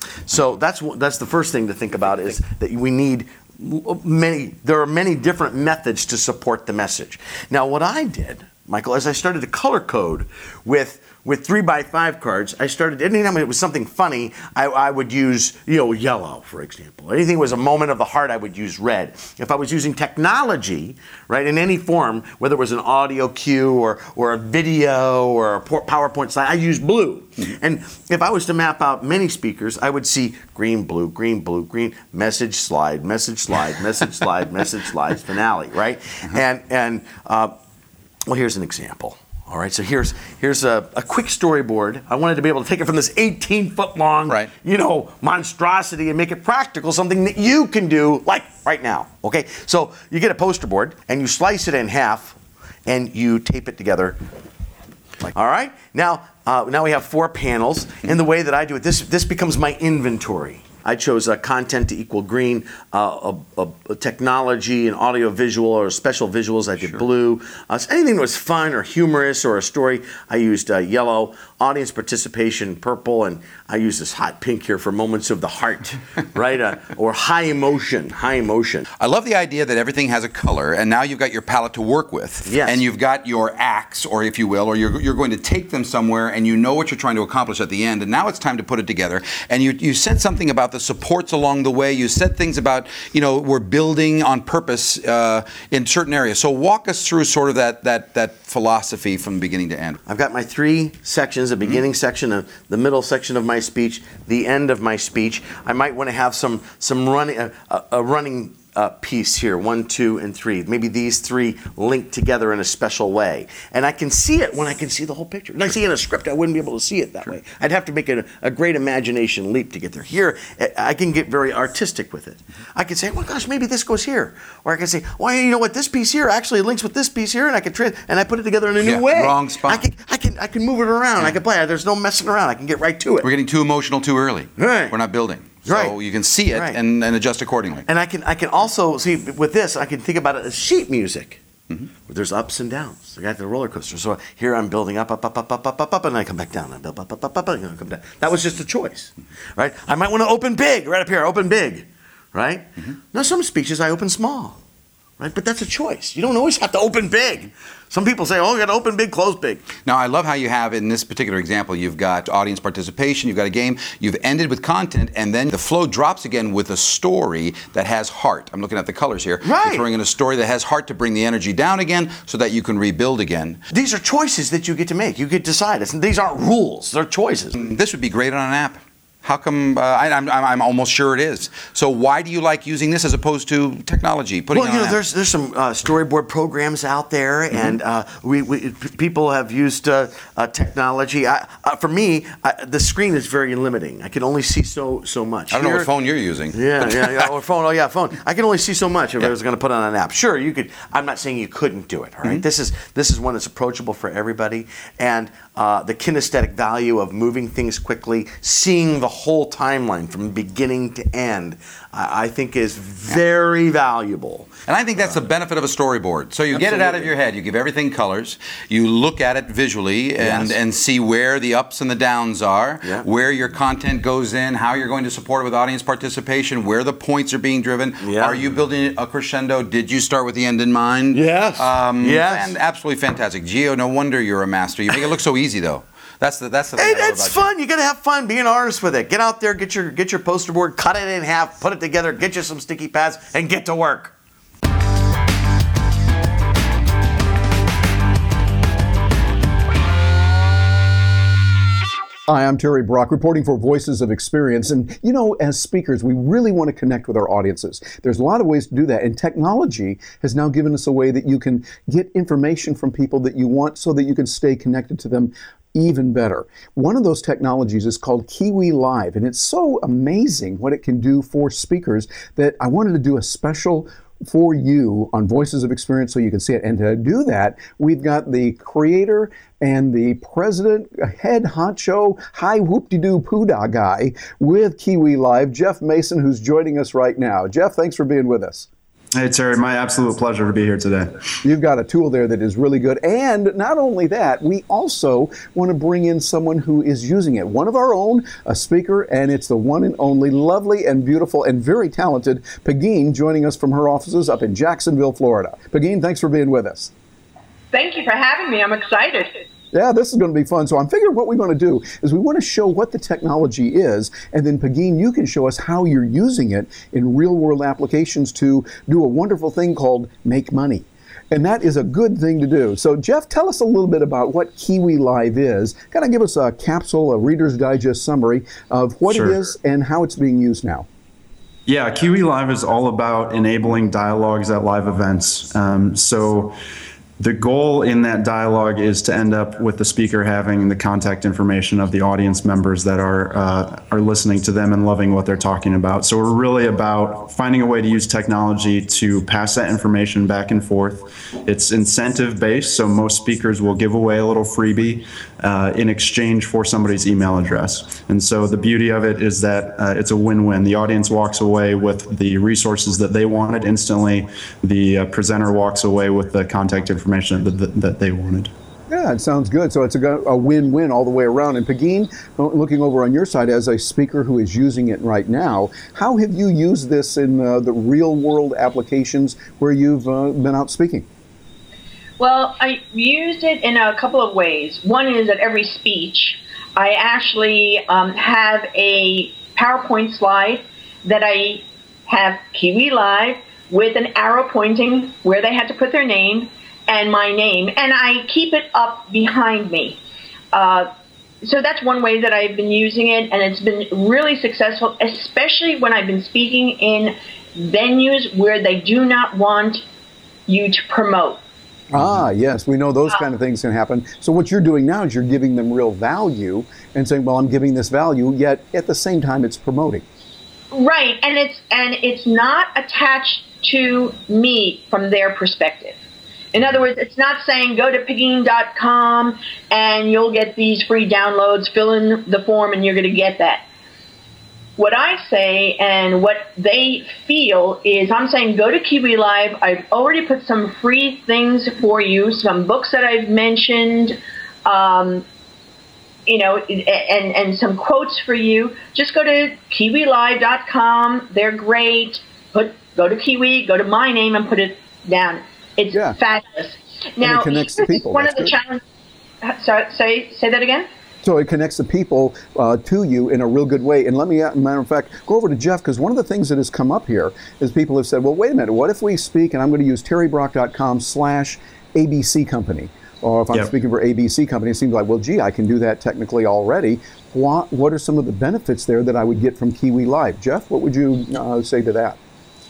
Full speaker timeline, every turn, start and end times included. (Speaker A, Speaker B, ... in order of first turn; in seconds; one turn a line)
Speaker A: 0.3-37.5
Speaker A: 38.3-54.2
Speaker A: 55.3-78.9
Speaker B: 79.0-100.0
Speaker A: 82.4-82.8
Speaker A: 100.1-133.3
Speaker B: 128.8-129.8
Speaker B: 133.2-137.9
Speaker A: 134.6-134.9
Speaker A: 135.6-136.0
Speaker A: 136.5-136.8
Speaker A: 137.8-141.4
Speaker A: 142.1-154.6
Speaker A: 155.2-159.7
Speaker B: 159.8-173.6
Speaker A: 169.4-169.8
Speaker A: 173.7-177.6
Speaker B: 177.6-185.0
Speaker A: 184.5-195.9
Speaker B: 187.5-187.8
Speaker B: 195.5-197.3
Speaker A: 196.5-215.2
Speaker B: 214.7-237.5
Speaker A: 216.5-217.1
Speaker A: 220.2-220.6
Speaker A: 228.0-228.6
Speaker A: 231.1-232.5
Speaker A: 236.8-244.1
Speaker C: 252.3-288.7
Speaker D: 289.1-291.2
Speaker C: 291.4-306.9
Speaker E: 307.7-309.3
Speaker C: 309.7-330.9
Speaker D: 329.1-329.4
Speaker D: 331.7-336.6
Speaker D: 337.2-368.5
Speaker C: 368.9-381.1
Speaker E: 382.2-400.0
Speaker E: 400.5-400.9
Speaker E: 401.4-409.8
Speaker E: 410.5-411.4
Speaker C: 411.9-420.0
Speaker E: 420.7-426.0
Speaker E: 426.5-433.6
Speaker E: 434.8-445.2
Speaker E: 446.3-458.8
Speaker C: 455.9-456.2
Speaker C: 457.2-458.5
Speaker E: 459.4-460.9
Speaker C: 461.2-482.2